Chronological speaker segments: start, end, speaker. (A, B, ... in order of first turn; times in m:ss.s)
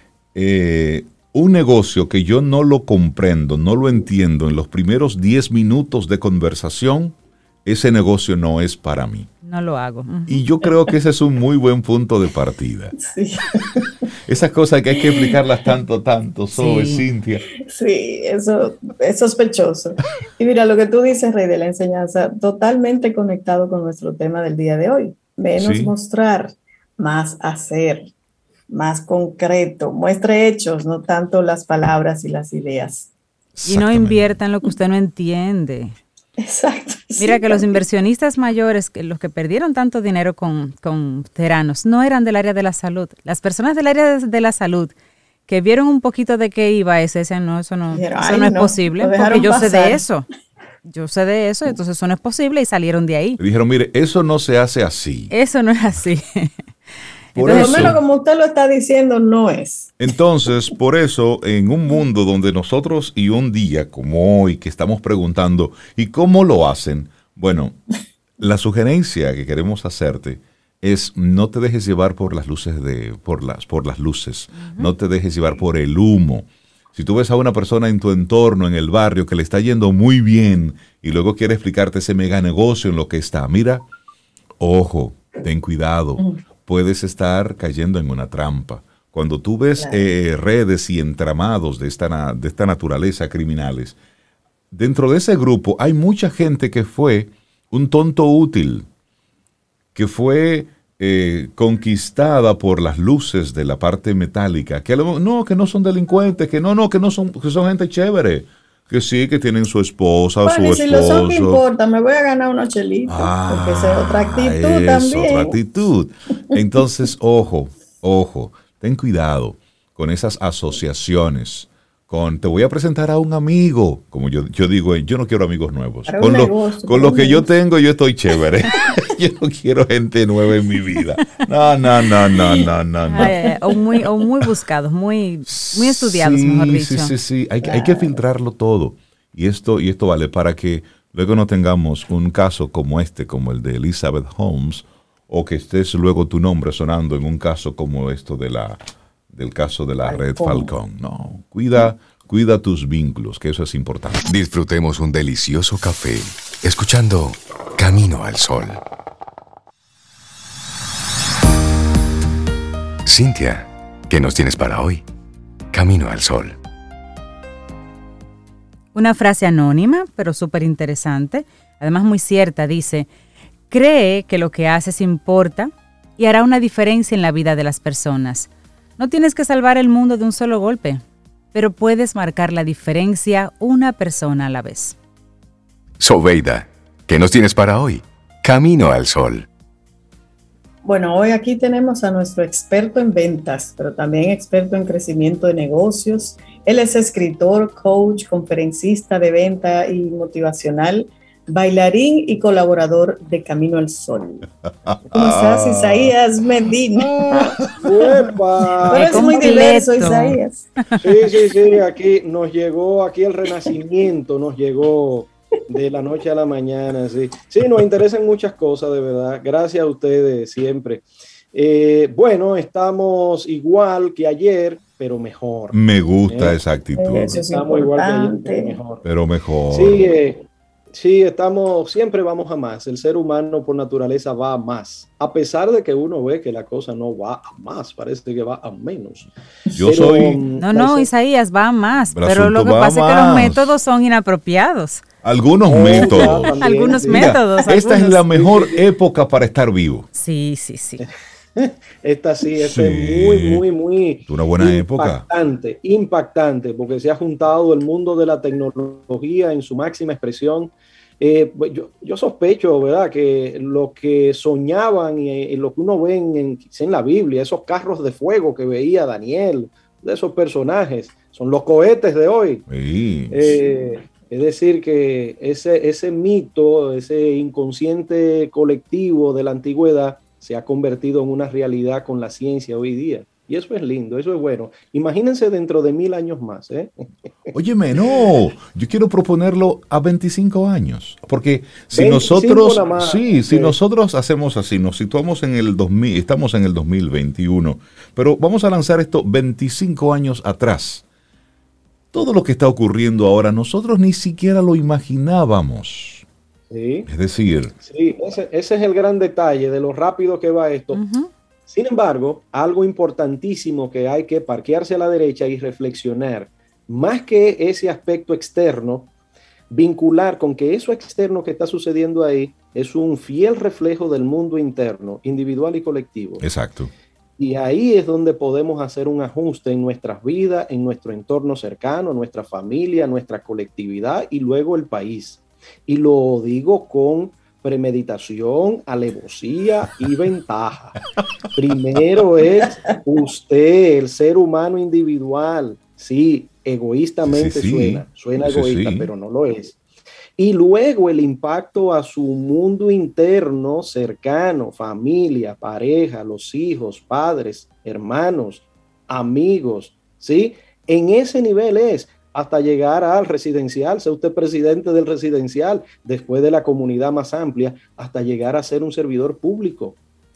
0:00.4-0:09.3 A
0:09.4-0:10.4 B
0:10.3-0:13.0 A
0:13.0-0:13.9 C
0:14.3-0:17.4 A
0:16.6-0:17.0 B
0:17.6-0:28.1 C
0:25.6-0:25.9 A
0:28.7-0:33.1 C
0:33.6-0:34.4 A
0:33.6-0:36.0 B
0:36.4-0:37.8 C
0:37.2-0:44.9 B
0:45.5-0:50.3 B
0:47.9-0:50.0 C
0:50.9-0:53.4 B
0:53.4-0:55.3 A
0:55.3-0:56.5 B
0:57.4-0:57.9 B
0:57.4-0:58.0 A
0:57.5-1:00.0 C
1:00.0-1:07.8 A
1:08.4-1:23.8 A
1:14.6-1:14.9 B
1:24.6-1:34.0 A
1:29.8-1:30.0 C
1:34.7-1:38.9 A
1:40.0-1:51.6 A
1:50.4-1:55.6 C
1:53.1-2:13.5 A
2:06.1-2:07.5 C
2:13.1-2:17.1 B
2:15.5-2:28.8 A
2:17.6-2:18.2 C
2:29.3-2:34.3 A
2:30.1-2:30.7 C
2:34.3-2:38.8 D
2:43.1-2:45.0 D
2:45.7-2:46.6 D
2:48.9-2:53.1 B
2:53.7-3:01.0 B
3:01.5-3:05.0 B
3:06.0-3:09.5 D
3:10.8-3:24.5 C
3:24.9-3:26.1 A
3:25.1-3:27.7 C
3:27.2-3:27.8 A
3:27.8-3:29.8 E
3:28.9-3:30.7 C
3:28.9-3:30.4 B
3:31.0-3:45.8 E
3:45.7-3:47.4 A
3:46.3-3:46.6 E
3:47.0-3:48.8 C
3:47.1-3:49.0 E
3:49.0-3:50.1 A
3:49.7-3:59.3 E
3:59.8-4:00.4 A
3:59.8-4:01.1 E
4:00.6-4:05.0 B
4:02.1-4:03.7 A
4:05.2-4:10.1 A
4:05.7-4:07.4 E
4:05.9-4:08.2 B
4:08.3-4:08.9 E
4:10.1-4:11.0 B
4:11.6-4:32.6 E
4:12.6-4:13.6 A
4:14.3-4:15.3 A
4:32.7-4:33.6 A
4:33.3-4:47.5 E
4:47.5-5:01.0 A
4:51.9-4:53.8 E
5:02.1-5:06.3 A
5:06.7-5:07.1 E
5:07.1-5:07.8 A
5:07.8-5:11.0 E
5:10.9-5:11.3 B
5:11.7-5:19.1 E
5:19.7-5:26.4 E
5:26.4-5:26.9 A
5:27.4-5:41.0 E
5:41.6-5:49.8 E
5:47.3-5:49.1 A
5:50.4-6:10.0 E